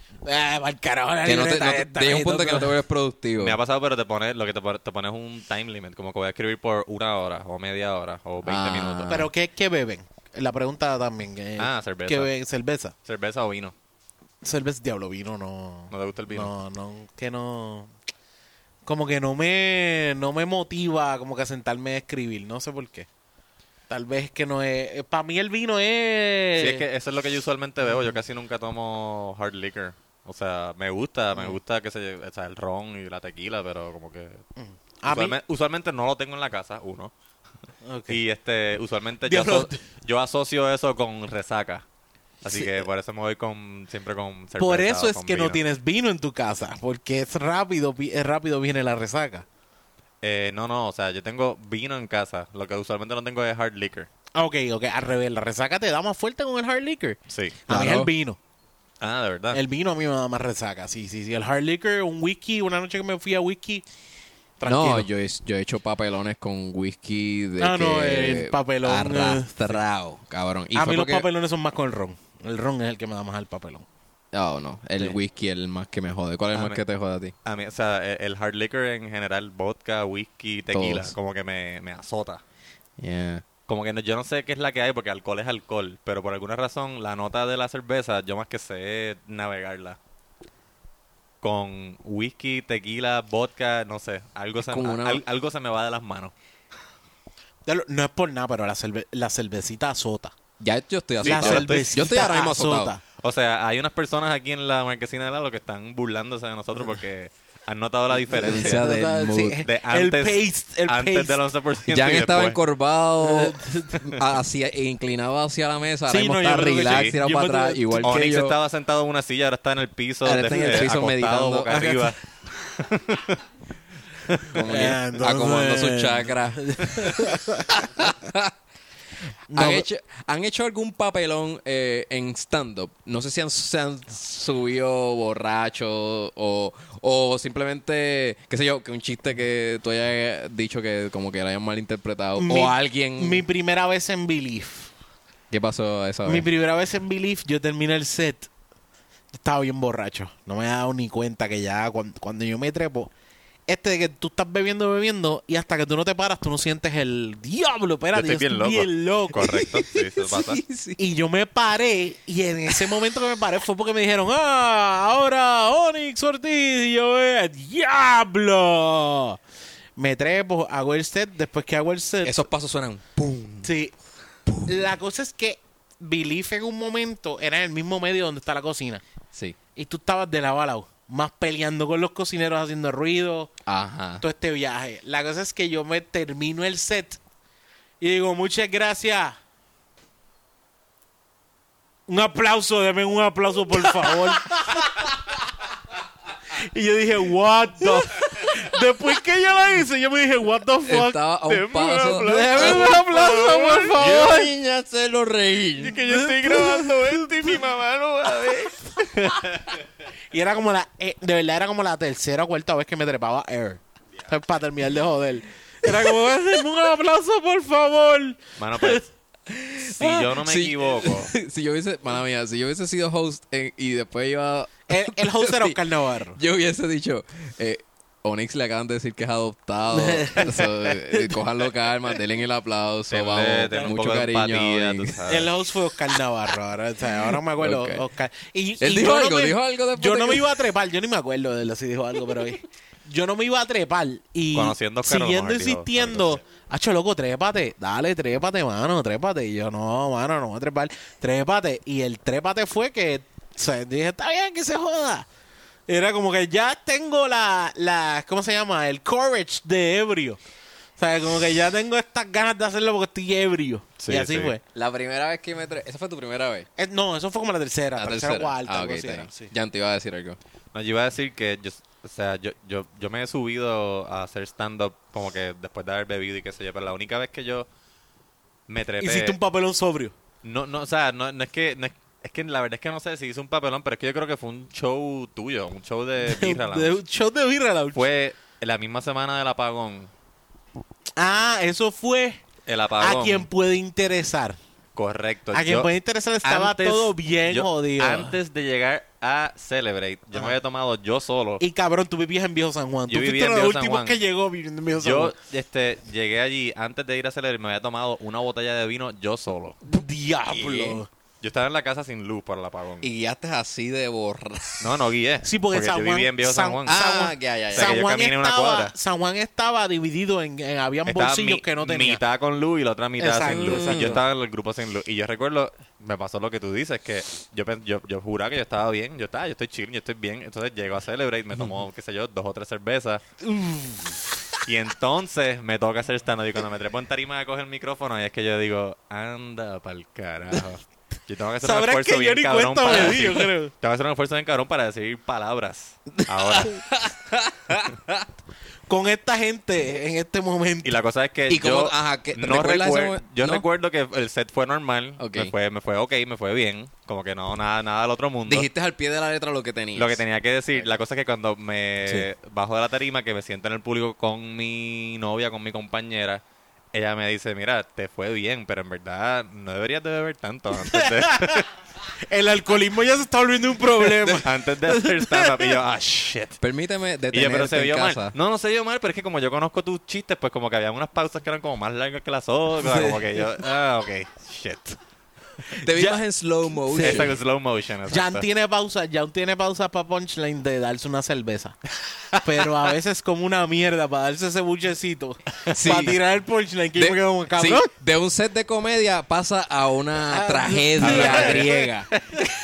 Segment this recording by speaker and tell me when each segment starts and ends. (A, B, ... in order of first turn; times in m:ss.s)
0:00.2-0:02.7 A
0:01.2-0:03.6 B
0:03.4-0:09.2 C
0:08.4-0:09.3 B
0:09.1-0:12.9 A
0:11.6-0:12.3 C
0:13.0-0:13.7 C
0:14.4-0:17.9 A
0:15.9-0:16.5 C
0:18.9-0:23.1 A
0:23.9-0:26.8 A
0:26.6-0:34.4 C
0:34.6-0:35.4 A
0:35.1-0:37.1 C
0:37.8-0:38.2 A
0:38.1-0:41.8 C
0:39.2-0:39.8 A
0:42.4-0:45.6 C
0:42.5-0:42.8 A
0:44.6-0:49.4 A
0:50.2-0:54.1 C
0:54.4-0:58.4 A
0:57.3-0:57.6 C
0:57.7-0:58.1 B
0:59.0-0:59.6 C
0:59.5-1:03.8 A
1:04.6-1:05.1 A
1:04.6-1:11.3 B
1:07.6-1:09.8 A
1:10.8-1:13.9 A
1:14.3-1:17.3 B
1:16.5-1:16.8 C
1:17.4-1:22.4 C
1:20.7-1:21.2 B
1:23.0-1:23.5 B
1:23.7-1:30.0 C
1:31.4-1:36.3 C
1:34.6-1:35.2 B
1:37.7-1:40.4 A
1:40.6-1:42.9 B
1:41.2-1:41.9 C
1:41.2-1:43.0 A
1:43.2-1:48.9 C
1:48.3-1:51.4 A
1:48.3-1:49.6 B
1:49.6-1:52.6 C
1:51.9-1:58.6 B
1:53.2-1:54.0 A
1:56.1-1:58.2 A
1:56.8-1:57.2 C
1:58.0-2:03.4 C
2:00.2-2:02.0 B
2:00.5-2:00.8 A
2:01.8-2:02.1 A
2:04.5-2:08.5 B
2:04.7-2:07.8 A
2:09.5-2:09.9 A
2:09.5-2:23.4 B
2:22.4-2:24.9 A
2:25.5-2:26.5 B
2:26.2-2:28.5 A
2:29.3-2:33.1 A
2:33.7-2:39.8 A
2:38.1-2:40.6 C
2:39.4-2:41.0 B
2:41.0-2:49.4 A
2:42.7-2:43.0 B
2:50.0-2:52.4 A
2:52.2-2:53.7 B
2:53.6-2:53.9 A
2:54.5-2:54.8 B
2:54.7-2:59.0 A
2:59.8-3:03.5 A
3:03.7-3:04.2 B
3:04.2-3:07.2 A
3:08.0-3:09.4 A
3:12.1-3:15.1 A
3:14.0-3:14.4 B
3:16.5-3:24.5 A
3:17.8-3:18.7 B
3:20.8-3:28.7 B
3:21.5-3:22.9 C
3:25.8-3:27.6 C
3:26.0-3:27.7 A
3:28.3-3:28.7 A
3:30.3-3:39.0 A
3:38.6-3:39.1 C
3:39.5-3:45.8 B
3:39.8-3:41.3 C
3:44.9-3:46.4 A
3:46.4-3:55.2 B
3:49.9-3:51.4 A
3:53.1-3:55.5 C
3:55.3-4:15.3 A
3:57.3-3:58.0 B
3:58.8-4:00.6 B
4:04.5-4:06.4 C
4:15.9-4:20.4 A
4:21.0-4:24.6 A
4:24.0-4:24.5 C
4:24.7-4:26.7 B
4:26.8-4:29.5 A
4:28.0-4:30.4 B
4:30.7-4:37.7 C
4:38.7-4:39.4 C
4:39.0-4:40.1 A
4:40.4-4:47.0 C
4:46.3-4:48.0 A
4:47.9-4:50.1 C
4:51.2-4:52.4 A
4:52.7-4:53.5 C
4:53.0-4:54.6 A
4:55.0-4:55.9 C
4:55.5-4:58.4 A
4:56.4-5:01.6 C
5:01.6-5:05.3 A
5:03.1-5:04.2 C
5:05.0-5:09.8 C
5:09.8-5:11.1 A
5:10.5-5:11.0 B
5:11.4-5:13.1 C
5:13.0-5:14.9 B
5:14.8-5:17.0 C
5:15.4-5:22.2 A
5:16.9-5:18.0 B
5:17.7-5:18.9 C
5:21.1-5:33.2 C
5:23.2-5:24.2 A
5:23.4-5:24.2 B
5:33.4-5:34.3 A
5:34.6-5:46.8 C
5:41.6-5:43.7 A
5:46.5-5:48.3 B
5:48.9-5:50.9 A
5:50.8-5:58.7 C
5:51.5-5:53.6 B
5:55.2-5:55.5 B
5:58.5-6:00.2 B
6:00.0-6:06.4 C
6:06.9-6:11.7 C
6:10.8-6:11.6 A
6:12.2-6:15.7 A
6:14.4-6:16.6 C
6:16.6-6:18.4 B
6:17.3-6:25.0 C
6:22.8-6:23.2 A
6:25.8-6:27.4 B
6:25.9-6:26.2 A
6:26.9-6:27.3 A
6:27.0-6:28.5 C
6:28.1-6:31.8 A
6:32.4-6:37.9 A
6:35.7-6:36.2 B
6:37.0-6:42.1 B
6:40.3-6:42.4 A
6:41.0-6:42.2 C